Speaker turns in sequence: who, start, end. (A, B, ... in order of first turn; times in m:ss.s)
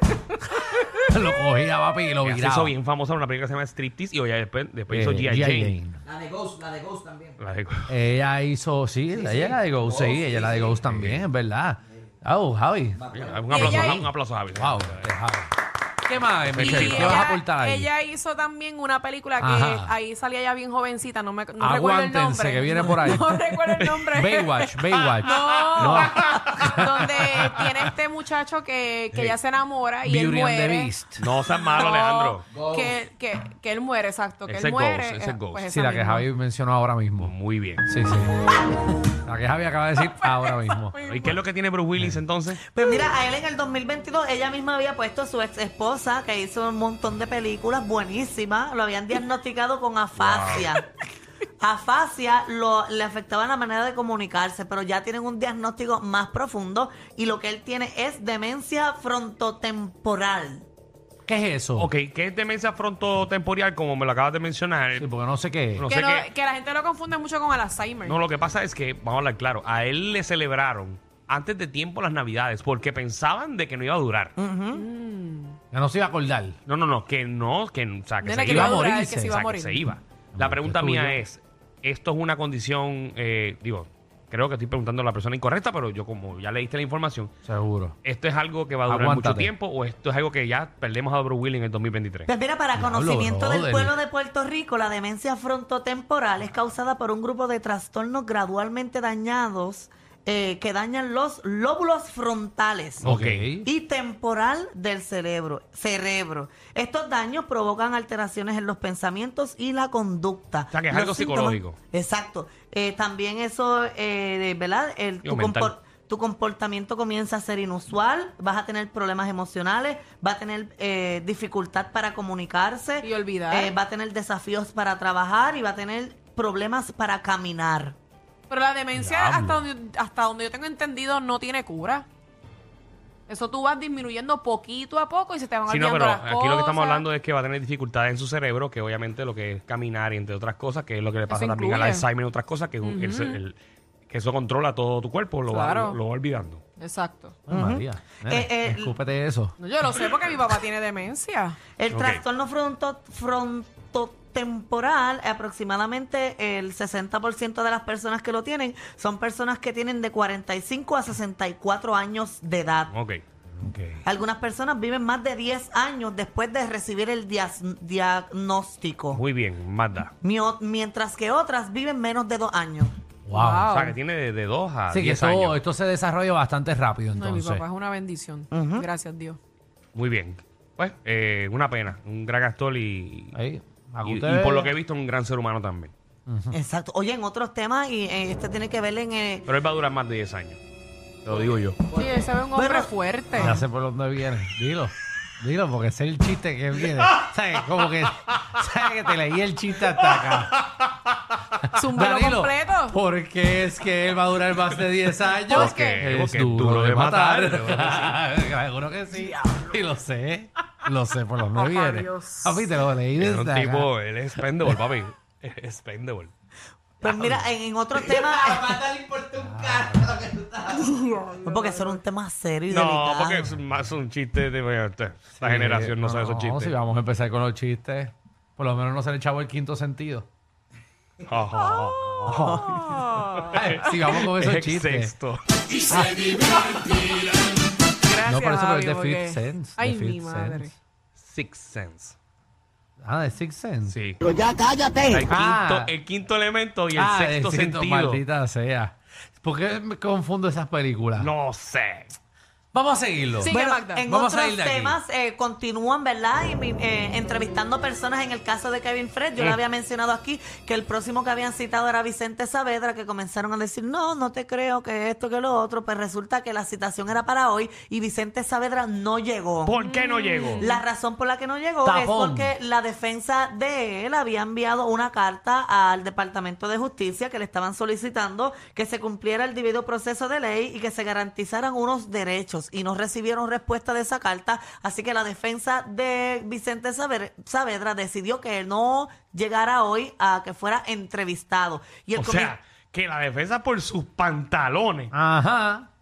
0:00.5-0:02.7 A
0:02.2-0:05.8 B
0:04.9-0:06.0 A
0:06.1-0:07.3 C
0:07.4-0:07.9 B
0:07.9-0:15.5 A
0:09.2-0:10.7 C
0:10.8-0:11.2 B
0:13.0-0:13.4 C
0:13.1-0:15.1 B
0:13.4-0:14.1 D
0:16.0-0:17.9 A
0:16.5-0:17.3 B
0:16.6-0:36.3 D
0:19.4-0:19.9 A
0:21.6-0:23.4 A
0:23.8-0:24.4 B
0:24.2-0:27.6 A
0:25.2-0:26.8 B
0:30.0-0:31.2 A
0:31.2-0:32.4 B
0:32.5-0:32.9 C
0:34.5-0:35.6 B
0:35.7-0:37.3 A
0:37.2-0:37.9 B
0:37.8-0:38.3 A
0:39.2-0:41.0 A
0:40.0-0:41.4 D
0:41.0-0:42.6 B
0:42.7-0:50.8 E
0:50.1-0:50.6 B
0:51.6-1:00.7 E
1:01.3-1:01.9 A
1:01.8-1:05.1 B
1:05.0-1:05.9 A
1:05.7-1:06.3 B
1:05.9-1:08.2 D
1:08.0-1:14.3 B
1:14.4-1:14.8 E
1:14.7-1:15.6 D
1:15.7-1:16.6 A
1:16.6-1:27.3 B
1:18.2-1:19.8 D
1:18.4-1:19.3 A
1:20.3-1:21.2 A
1:27.4-1:27.9 A
1:28.0-1:32.3 B
1:28.8-1:29.5 A
1:32.3-1:43.1 E
1:32.7-1:34.0 A
1:43.0-1:43.5 B
1:43.0-1:43.7 A
1:43.6-2:08.0 E
1:50.7-1:51.8 B
1:55.2-1:55.7 B
2:03.0-2:03.7 D
2:08.5-2:12.0 D
2:09.0-2:09.6 A
2:13.3-2:17.1 D
2:15.7-2:23.6 B
2:21.3-2:22.1 D
2:22.8-2:23.4 D
2:24.1-2:26.6 B
2:25.5-2:26.0 D
2:26.8-2:27.4 D
2:27.5-2:29.5 A
2:27.5-2:29.0 E
2:29.6-2:31.6 D
2:31.8-2:42.9 E
2:31.9-2:32.2 B
2:42.9-2:44.0 B
2:44.0-2:49.2 E
2:49.1-2:50.1 B
2:50.2-2:52.9 E
2:53.3-2:53.7 A
2:53.3-2:54.0 D
2:53.7-2:55.6 B
2:54.9-2:57.6 A
2:57.1-2:59.4 D
2:58.5-2:58.9 E
2:59.9-3:03.4 B
3:03.3-3:04.7 A
3:04.0-3:05.9 B
3:06.3-3:06.5 A
3:06.5-3:09.5 E
3:09.4-3:10.6 B
3:11.2-3:11.8 B
3:11.9-3:13.6 D
3:12.5-3:12.9 E
3:13.4-3:20.6 A
3:20.2-3:20.6 B
3:21.7-3:23.0 D
3:22.0-3:33.9 A
3:25.5-3:26.1 D
3:25.5-3:28.2 B
3:31.5-3:32.6 D
3:33.2-3:36.3 B
3:37.0-3:39.0 E
3:38.8-3:40.9 C
3:39.3-3:40.2 A
3:41.0-3:41.4 D
3:41.4-3:43.5 E
3:42.7-3:46.7 B
3:45.4-3:50.3 A
3:51.2-3:52.6 B
3:52.3-3:52.9 A
3:52.5-3:53.5 D
3:53.3-3:56.1 B
3:53.4-3:55.1 A
3:55.9-3:56.4 A
3:58.0-4:00.7 D
3:58.2-4:00.7 A
4:01.2-4:02.1 B
4:03.0-4:04.0 A
4:03.9-4:04.2 B
4:04.4-4:05.2 C
4:05.1-4:08.2 B
4:05.3-4:05.9 A
4:06.9-4:11.3 A
4:11.2-4:12.2 B
4:12.7-4:15.0 A
4:13.4-4:14.1 D
4:13.4-4:29.8 E
4:19.4-4:19.6 B
4:29.6-4:30.7 B
4:29.8-4:30.8 D
4:30.6-4:52.5 E
4:31.8-4:32.5 A
4:52.2-4:55.1 B
4:55.1-4:55.9 A